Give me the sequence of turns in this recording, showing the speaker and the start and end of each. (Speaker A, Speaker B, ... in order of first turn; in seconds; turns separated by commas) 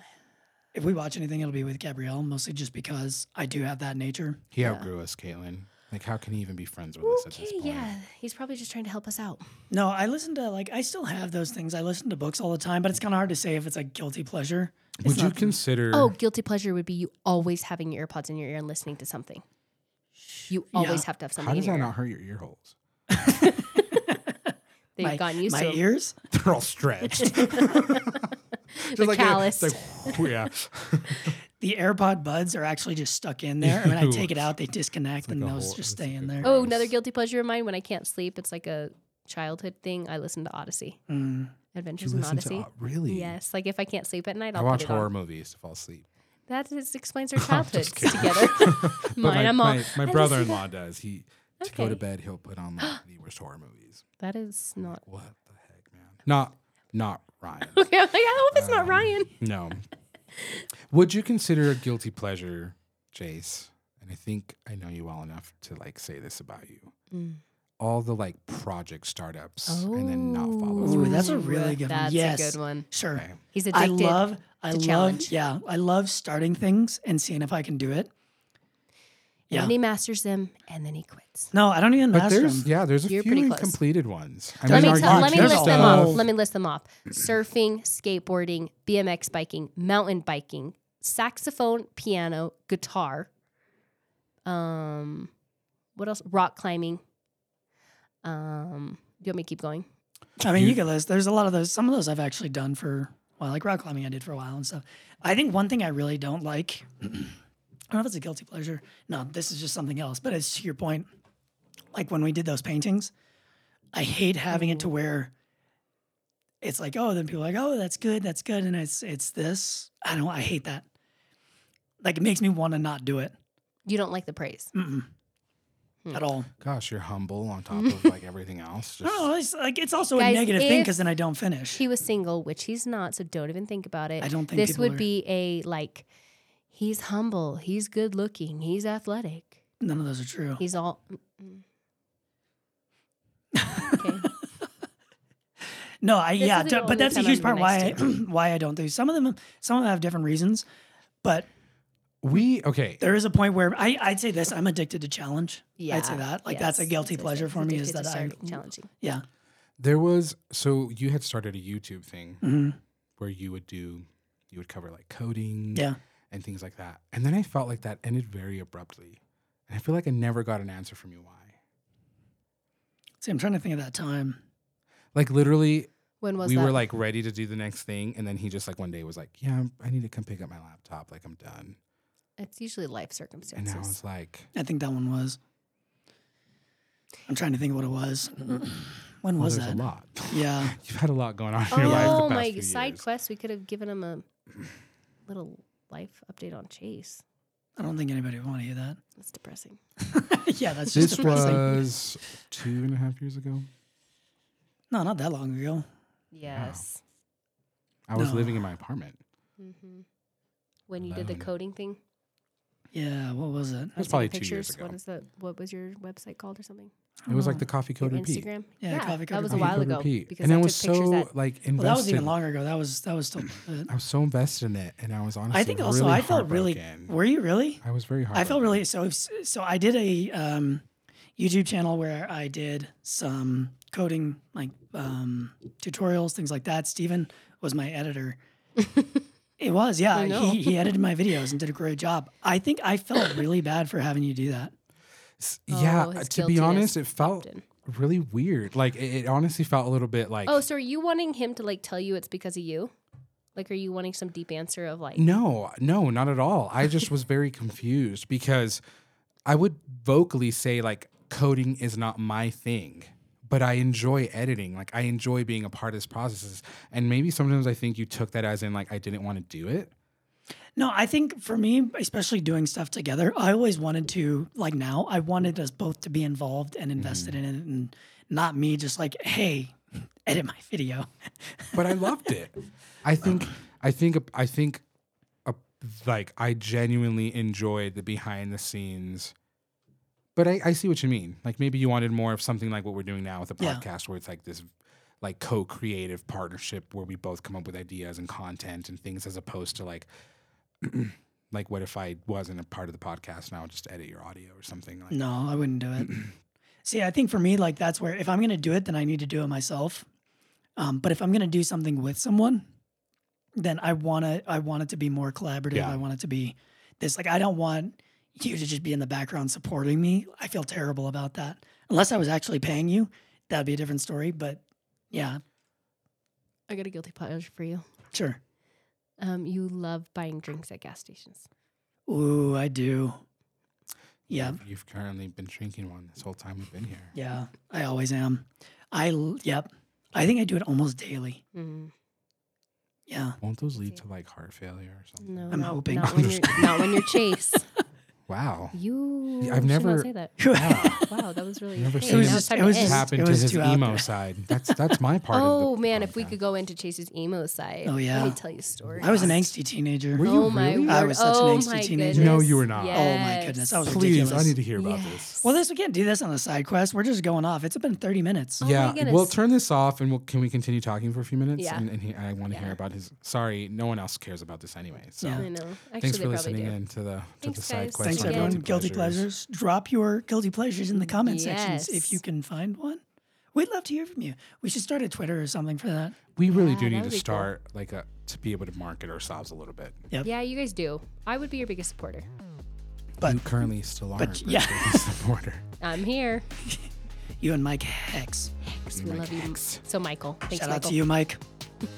Speaker A: 0.7-4.4, Speaker B: 4.5-7.9, Speaker C: 4.6-4.9, Speaker C: 7.0-9.4, Speaker A: 9.7-15.5, Speaker B: 15.0-16.1, Speaker C: 15.9-19.4, Speaker C: 20.5-21.9, Speaker A: 20.7-21.0, Speaker B: 21.4-22.8, Speaker A: 23.1-24.2, Speaker C: 23.3-24.1, Speaker C: 25.0-25.8, Speaker A: 25.0-26.1, Speaker B: 26.3-28.3, Speaker C: 27.2-30.2, Speaker B: 28.8-31.4, Speaker A: 31.6-36.5, Speaker B: 33.6-34.5, Speaker B: 35.2-36.9, Speaker C: 36.4-41.0, Speaker A: 41.1-41.5, Speaker C: 41.7-45.1, Speaker B: 42.0-43.4, Speaker B: 44.5-46.1, Speaker C: 46.5-50.6, Speaker B: 47.4-54.0, Speaker C: 51.6-52.0, Speaker C: 54.2-55.0, Speaker B: 54.8-57.8, Speaker C: 57.7-59.3, Speaker B: 58.5-59.9, Speaker C: 60.3-60.6, Speaker B: 60.9-66.9, Speaker C: 67.1-67.4, Speaker B: 67.8-71.3, Speaker C: 69.7-72.9, Speaker A: 70.8-78.1, Speaker B: 73.1-73.4, Speaker C: 73.5-75.3, Speaker C: 79.5-81.5, Speaker A: 81.5-82.7, Speaker B: 82.1-86.3, Speaker C: 83.1-83.8, Speaker A: 84.6-86.2, Speaker C: 84.7-93.3, Speaker C: 94.5-95.3, Speaker C: 96.0-97.0, Speaker C: 98.2-99.9, Speaker B: 100.4-100.8, Speaker A: 100.4-107.4, Speaker A: 107.9-111.1, Speaker A: 111.9-113.1, Speaker A: 113.9-115.3, Speaker C: 114.5-114.9, Speaker A: 116.6-120.8, Speaker A: 122.0-123.3, Speaker C: 123.9-124.7, Speaker A: 124.7-125.1, Speaker A: 126.1-126.5, Speaker B: 126.6-129.3, Speaker C: 127.8-128.1, Speaker A: 129.0-131.8, Speaker C: 130.1-131.0, Speaker C: 131.7-136.1, Speaker A: 134.2-135.0, Speaker C: 136.7-139.6, Speaker A: 139.8-140.6, Speaker C: 140.6-141.6, Speaker A: 143.5-144.3, Speaker C: 143.9-144.3, Speaker A: 146.0-150.7, Speaker C: 146.4-148.1, Speaker A: 151.2-151.5, Speaker B: 152.2-153.1, Speaker A: 153.0-159.2, Speaker C: 155.8-158.9, Speaker B: 159.8-162.4, Speaker A: 162.4-162.8, Speaker B: 163.2-171.6, Speaker A: 173.2-174.4, Speaker B: 175.1-175.9, Speaker C: 176.2-176.8, Speaker B: 176.4-181.8, Speaker C: 182.4-184.0, Speaker B: 183.6-184.5, Speaker A: 184.5-185.4, Speaker A: 187.3-190.8, Speaker B: 189.4-193.0, Speaker C: 191.7-194.3, Speaker A: 191.8-192.2, Speaker C: 195.3-197.2, Speaker A: 197.8-199.0, Speaker C: 199.2-199.8, Speaker A: 200.0-201.8, Speaker B: 200.9-203.7, Speaker C: 201.1-201.4, Speaker A: 204.9-205.9, Speaker C: 206.3-207.0, Speaker B: 206.5-206.8, Speaker B: 208.1-209.2, Speaker A: 208.1-208.6, Speaker C: 209.6-210.1, Speaker C: 210.9-212.0, Speaker B: 211.0-211.5, Speaker A: 212.9-213.9, Speaker C: 213.9-216.9, Speaker B: 213.9-215.0, Speaker A: 217.2-217.6, Speaker B: 217.3-218.5, Speaker C: 218.0-221.3, Speaker A: 218.8-219.9, Speaker B: 219.5-222.4, Speaker A: 221.8-223.9, Speaker B: 223.9-227.1, Speaker A: 225.5-230.8, Speaker B: 227.8-228.8, Speaker A: 231.4-238.4, Speaker C: 238.8-239.2, Speaker A: 239.6-244.7, Speaker C: 240.1-240.9, Speaker B: 245.4-250.6, Speaker C: 245.7-247.6, Speaker C: 250.4-252.9, Speaker C: 253.5-255.3, Speaker B: 255.2-258.8, Speaker B: 259.4-269.9, Speaker A: 270.8-281.9, Speaker B: 277.0-277.4, Speaker B: 281.7-284.8, Speaker B: 285.4-289.3, Speaker B: 290.4-300.1, Speaker A: 293.6-293.8, Speaker B: 300.8-305.2, Speaker A: 305.1-306.2, Speaker B: 306.0-306.3, Speaker A: 306.8-310.1, Speaker A: 310.8-312.7, Speaker A: 313.6-325.4, Speaker B: 315.7-316.0, Speaker C: 326.7-327.8, Speaker A: 328.1-328.4, Speaker C: 329.2-331.5, Speaker A: 332.1-333.2, Speaker A: 334.3-334.6, Speaker B: 334.3-337.1, Speaker A: 337.1-341.4, Speaker C: 341.5-341.9, Speaker A: 343.1-343.4, Speaker B: 343.4-346.9, Speaker C: 343.8-344.0, Speaker C: 345.2-347.6, Speaker A: 345.5-346.1, Speaker B: 348.3-348.8, Speaker C: 348.7-350.3, Speaker B: 349.4-351.0, Speaker A: 350.4-351.0, Speaker C: 350.9-353.1, Speaker B: 351.8-356.4, Speaker A: 352.1-354.1, Speaker C: 355.3-359.4, Speaker A: 357.8-358.4, Speaker A: 359.0-360.3, Speaker B: 359.2-359.5, Speaker B: 360.1-361.1, Speaker C: 360.2-363.8, Speaker A: 360.8-364.6, Speaker B: 362.1-363.1, Speaker B: 363.8-365.4, Speaker C: 364.7-365.6, Speaker A: 365.4-368.6, Speaker C: 368.6-369.4, Speaker B: 368.6-379.3, Speaker C: 371.6-371.9, Speaker C: 372.5-372.8, Speaker A: 375.2-375.5, Speaker C: 375.3-376.8, Speaker C: 377.4-378.6, Speaker A: 378.0-383.0, Speaker C: 381.0-382.2, Speaker A: 383.5-386.2, Speaker B: 386.4-390.0, Speaker C: 386.5-387.5, Speaker C: 390.2-392.2, Speaker B: 393.2-395.6, Speaker A: 394.2-395.0, Speaker C: 395.8-396.4, Speaker A: 397.4-398.5, Speaker C: 398.6-401.0, Speaker B: 398.9-399.8, Speaker A: 400.5-401.4